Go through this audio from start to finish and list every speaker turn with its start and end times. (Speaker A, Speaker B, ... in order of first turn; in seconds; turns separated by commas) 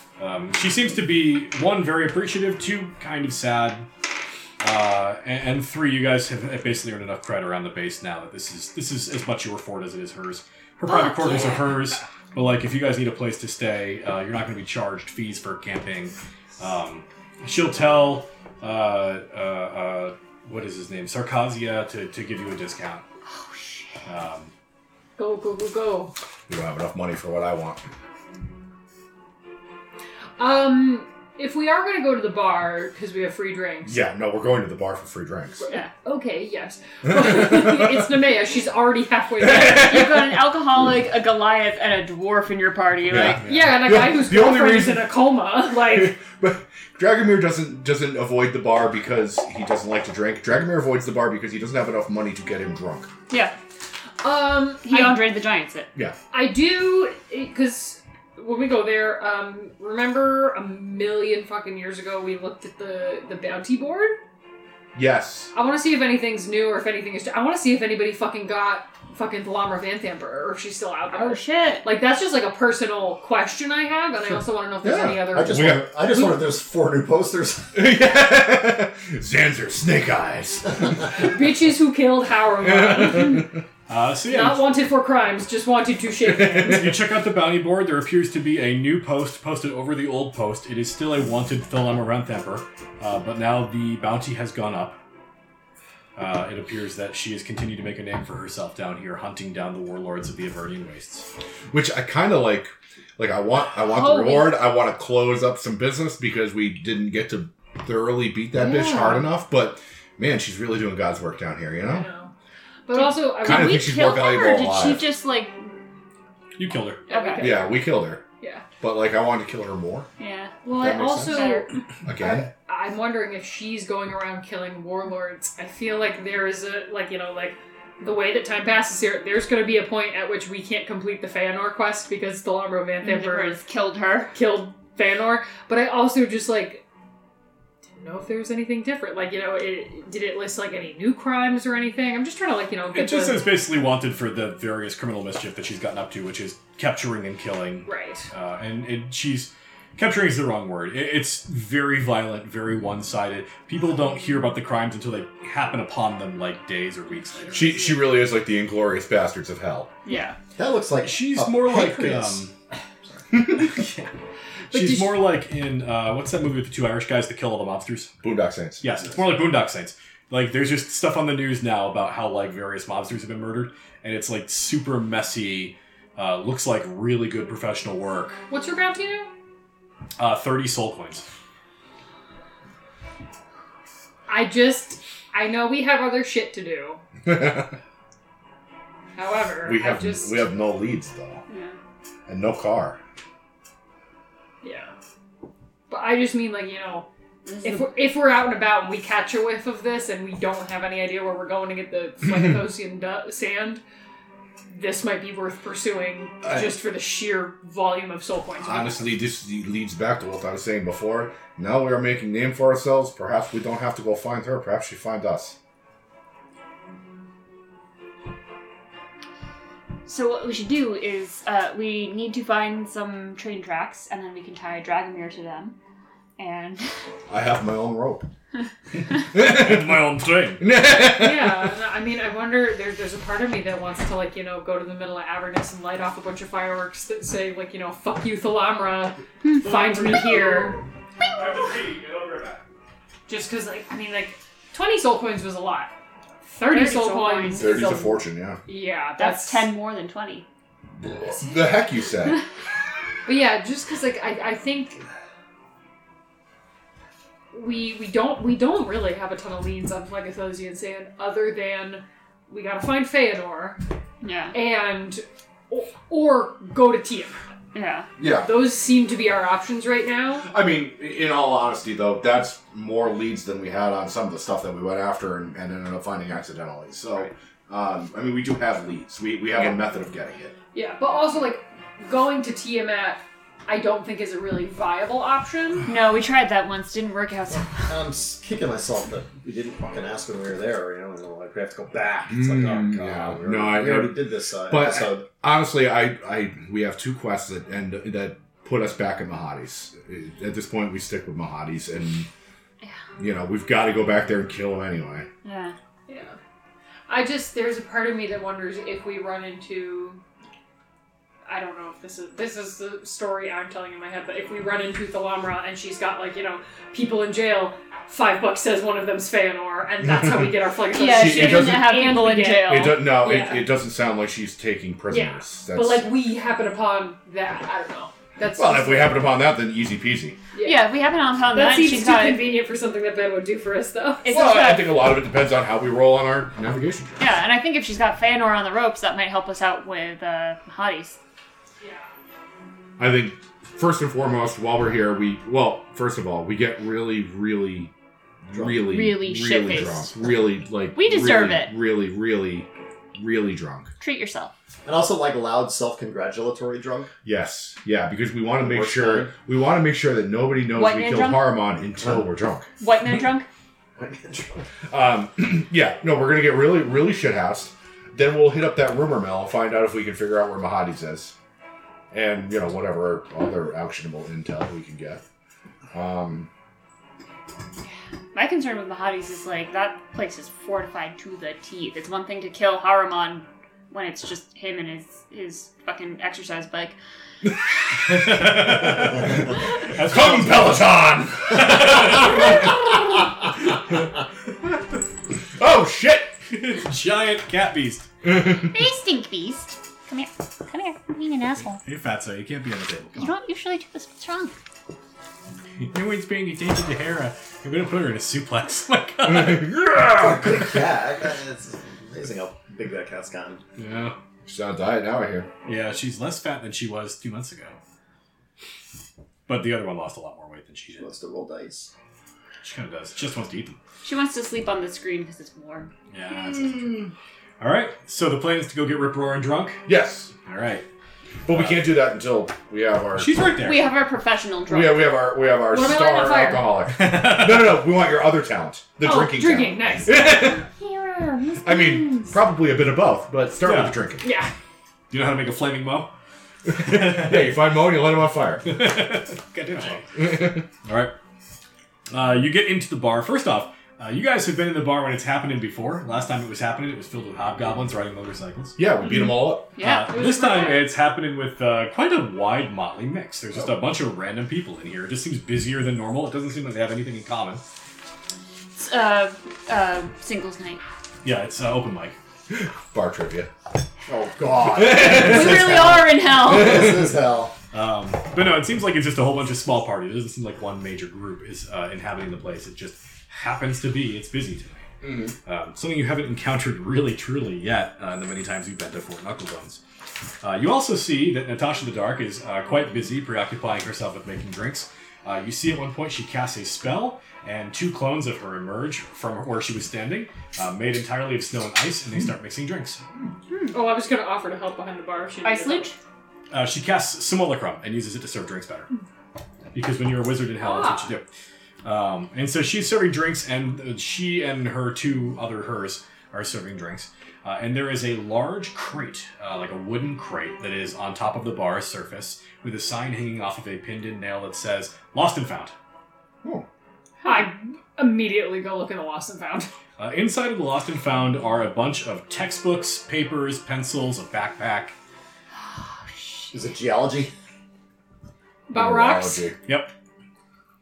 Speaker A: 0.2-3.9, Speaker A: 4.6-23.0, Speaker B: 10.9-11.6, Speaker B: 23.3-23.9, Speaker A: 24.1-24.5, Speaker C: 25.1-26.1, Speaker D: 26.5-27.8, Speaker C: 30.4-34.0, Speaker D: 33.8-35.6, Speaker C: 35.6-40.0, Speaker D: 37.1-38.0, Speaker D: 39.4-40.0, Speaker B: 39.7-43.4, Speaker D: 43.1-45.1, Speaker C: 43.4-46.2, Speaker A: 43.4-43.8, Speaker D: 45.7-53.1, Speaker B: 53.3-53.5, Speaker C: 54.2-55.2, Speaker B: 54.8-55.9, Speaker C: 56.3-64.2, Speaker D: 64.9-65.5, Speaker C: 65.5-76.4, Speaker B: 71.1-71.9, Speaker D: 74.8-76.0, Speaker E: 74.8-77.8, Speaker D: 77.7-81.3, Speaker C: 81.1-83.5, Speaker D: 82.6-83.6, Speaker A: 83.9-84.7, Speaker C: 84.2-87.0, Speaker D: 86.4-86.8, Speaker A: 86.5-95.0, Speaker A: 96.2-101.3, Speaker D: 101.7-112.1, Speaker B: 103.9-104.3, Speaker C: 104.1-104.5, Speaker C: 108.5-109.2, Speaker C: 111.8-112.3, Speaker C: 112.9-114.0, Speaker B: 112.9-115.7, Speaker D: 113.4-115.0, Speaker A: 116.5-117.1, Speaker B: 117.1-117.6, Speaker C: 117.1-117.7, Speaker D: 117.4-118.2, Speaker C: 118.4-118.6, Speaker D: 118.8-120.1, Speaker B: 120.2-120.6, Speaker C: 120.6-133.6, Speaker D: 120.8-121.4, Speaker B: 121.2-121.7, Speaker D: 122.0-122.5, Speaker B: 133.0-134.3, Speaker C: 134.3-136.8, Speaker C: 137.9-143.5, Speaker A: 142.9-157.8, Speaker C: 147.8-148.3, Speaker D: 157.5-159.9, Speaker B: 160.0-160.4, Speaker E: 160.6-162.3, Speaker A: 161.0-162.5, Speaker A: 163.6-164.1, Speaker A: 164.7-168.1, Speaker C: 164.7-165.2, Speaker D: 168.2-168.8, Speaker A: 168.8-178.4, Speaker C: 178.5-179.3, Speaker A: 180.2-181.2, Speaker C: 184.3-187.0, Speaker D: 187.2-187.7, Speaker C: 189.1-190.4, Speaker D: 189.6-191.4, Speaker B: 191.5-191.8, Speaker D: 192.3-193.0, Speaker C: 194.6-194.9, Speaker C: 195.9-197.1, Speaker B: 197.4-197.8, Speaker C: 197.6-203.8, Speaker C: 204.7-209.2, Speaker D: 208.6-215.6, Speaker B: 220.1-225.8, Speaker B: 226.4-226.9, Speaker D: 227.3-228.3, Speaker D: 229.3-230.0, Speaker A: 229.3-230.6, Speaker D: 230.6-231.7, Speaker C: 230.9-240.8, Speaker A: 239.6-242.6, Speaker B: 241.2-241.7, Speaker C: 243.3-245.9, Speaker C: 246.4-249.7, Speaker B: 246.6-247.9, Speaker D: 247.6-248.6, Speaker B: 249.2-250.4, Speaker D: 251.0-252.4, Speaker C: 251.3-251.7, Speaker C: 253.2-255.0, Speaker C: 257.5-263.8, Speaker B: 264.2-264.6, Speaker C: 264.5-267.4, Speaker B: 267.7-268.1, Speaker D: 268.2-268.7, Speaker C: 268.2-270.5, Speaker D: 270.4-280.5, Speaker C: 280.7-285.9, Speaker B: 285.9-287.9, Speaker E: 287.7-295.2, Speaker D: 292.3-294.1, Speaker D: 294.7-302.3, Speaker D: 303.2-305.3, Speaker B: 305.4-305.8, Speaker C: 306.1-306.4, Speaker C: 307.1-310.2, Speaker C: 311.4-323.7, Speaker D: 320.1-320.5, Speaker B: 320.9-323.1, Speaker D: 321.1-321.9, Speaker D: 322.6-326.1, Speaker C: 325.1-329.2, Speaker D: 328.6-330.4, Speaker C: 330.5-330.9, Speaker B: 330.6-332.5, Speaker C: 331.5-334.4, Speaker B: 334.2-335.0, Speaker D: 334.3-337.3, Speaker B: 337.2-341.2, Speaker C: 341.8-342.1, Speaker D: 343.0-347.9, Speaker D: 348.5-353.9, Speaker B: 348.9-351.7, Speaker B: 354.0-354.5, Speaker E: 354.9-357.1, Speaker D: 357.2-362.7, Speaker E: 358.6-359.3, Speaker B: 360.7-361.7, Speaker B: 362.8-363.5, Speaker E: 364.0-364.6, Speaker D: 364.9-371.3, Speaker D: 372.1-375.2, Speaker D: 375.9-376.5, Speaker B: 378.3-387.0, Speaker A: 388.1-390.8, Speaker D: 388.1-392.8, Speaker D: 395.6-396.4, Speaker A: 396.5-398.1, Speaker D: 398.2-398.7, Speaker B: 398.5-401.8, Speaker A: 401.8-403.3, Speaker B: 403.1-404.6, Speaker A: 405.8-409.8, Speaker D: 409.3-410.4, Speaker E: 410.2-413.6, Speaker A: 413.8-414.2, Speaker D: 414.4-415.5, Speaker A: 415.6-417.8, Speaker A: 419.5-421.1, Speaker E: 421.0-421.9, Speaker A: 422.6-423.8, Speaker B: 424.0-425.9, Speaker A: 426.1-426.9, Speaker D: 426.5-427.1, Speaker A: 427.6-429.9, Speaker D: 429.9-430.3, Speaker A: 430.4-430.9, Speaker D: 431.4-433.4, Speaker A: 431.5-431.9, Speaker A: 433.1-433.9, Speaker B: 433.6-435.2, Speaker D: 434.7-440.7, Speaker C: 435.6-436.7, Speaker A: 436.9-437.8, Speaker C: 439.0-442.3, Speaker D: 441.6-444.2, Speaker A: 443.6-443.9, Speaker C: 444.2-444.5, Speaker A: 445.1-446.1, Speaker D: 446.7-448.8, Speaker A: 446.7-447.6, Speaker A: 448.6-450.2, Speaker D: 450.1-450.6, Speaker A: 450.8-451.1, Speaker A: 452.1-458.8, Speaker D: 458.8-459.7, Speaker B: 459.8-460.1, Speaker A: 459.8-467.6, Speaker C: 460.0-460.9, Speaker B: 468.7-470.8, Speaker A: 471.2-472.1, Speaker D: 472.5-473.5, Speaker E: 474.1-477.5, Speaker D: 474.8-475.6, Speaker B: 474.9-477.0, Speaker A: 477.7-484.9, Speaker D: 485.0-485.3, Speaker A: 485.4-489.8, Speaker A: 490.4-503.0, Speaker B: 503.5-503.7, Speaker C: 503.7-505.9, Speaker B: 505.4-505.9, Speaker A: 506.5-508.9, Speaker A: 509.7-511.3, Speaker C: 510.6-511.1, Speaker A: 511.8-525.7, Speaker C: 527.2-529.7, Speaker A: 530.0-534.9, Speaker B: 535.5-536.6, Speaker E: 536.5-537.3, Speaker C: 538.7-539.5, Speaker D: 538.7-539.6, Speaker A: 539.6-539.9